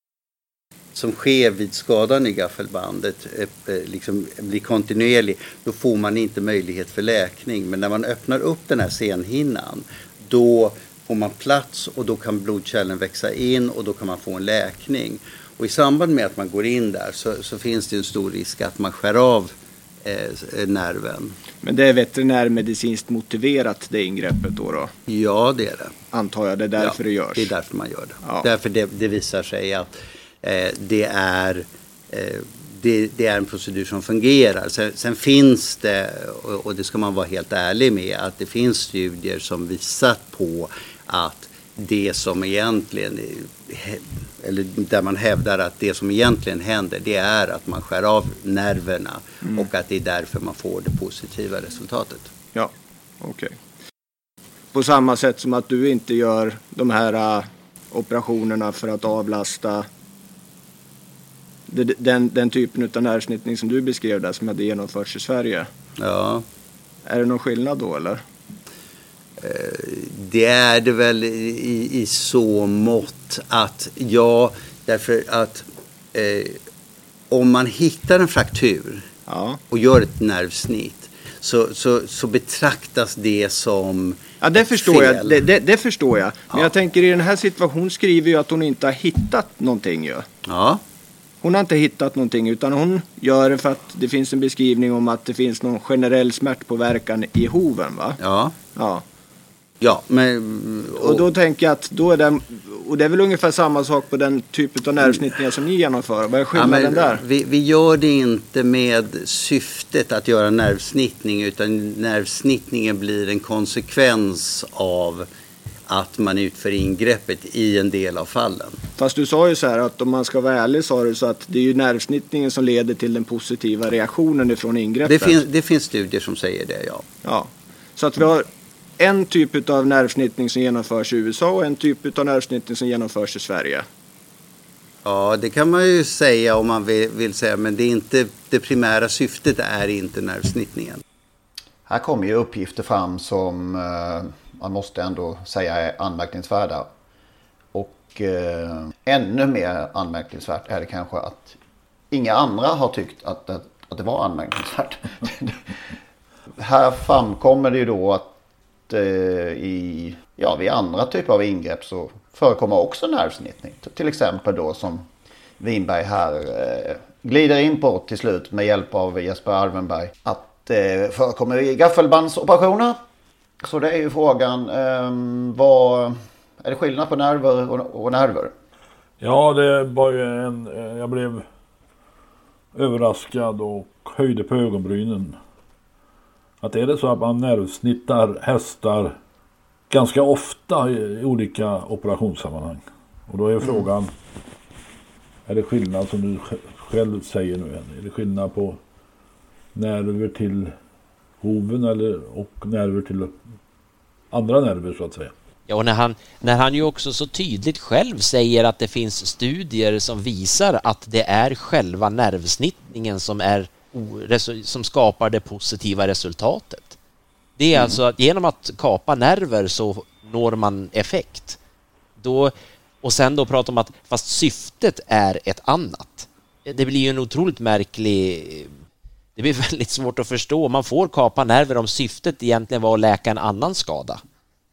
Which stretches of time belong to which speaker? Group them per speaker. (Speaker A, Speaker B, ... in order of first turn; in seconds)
Speaker A: 0.9-21.4, 25.1-25.9, 26.8-52.3, 66.0-66.5, 69.4-76.6, 77.3-79.1, 79.7-85.5, 90.5-90.8, 98.2-98.5, 99.8-101.3, 106.5-115.3, 115.9-118.8, 125.0-127.0, 135.1-141.0
Speaker B: 21.6-24.9, 26.1-27.5, 28.2-28.5, 53.2-53.5, 54.7-59.9, 61.7-65.7, 67.1-68.2, 79.3-79.6, 84.4-90.3, 91.4-98.2, 98.8-99.0, 101.0-107.2, 119.0-125.4, 127.2-128.5, 129.0-133.8
Speaker C: 141.9-146.9, 147.7-151.6, 152.1-155.6, 156.6-158.4, 158.9-165.1, 165.6-173.0, 173.6-178.5, 217.7-218.0
Speaker D: 179.2-181.4, 182.7-185.4, 186.6-189.2, 189.9-194.1, 195.5-198.8, 199.8-200.7, 201.4-203.3, 204.3-205.3
Speaker E: 205.7-217.0, 217.6-221.6, 222.2-228.7, 229.4-234.2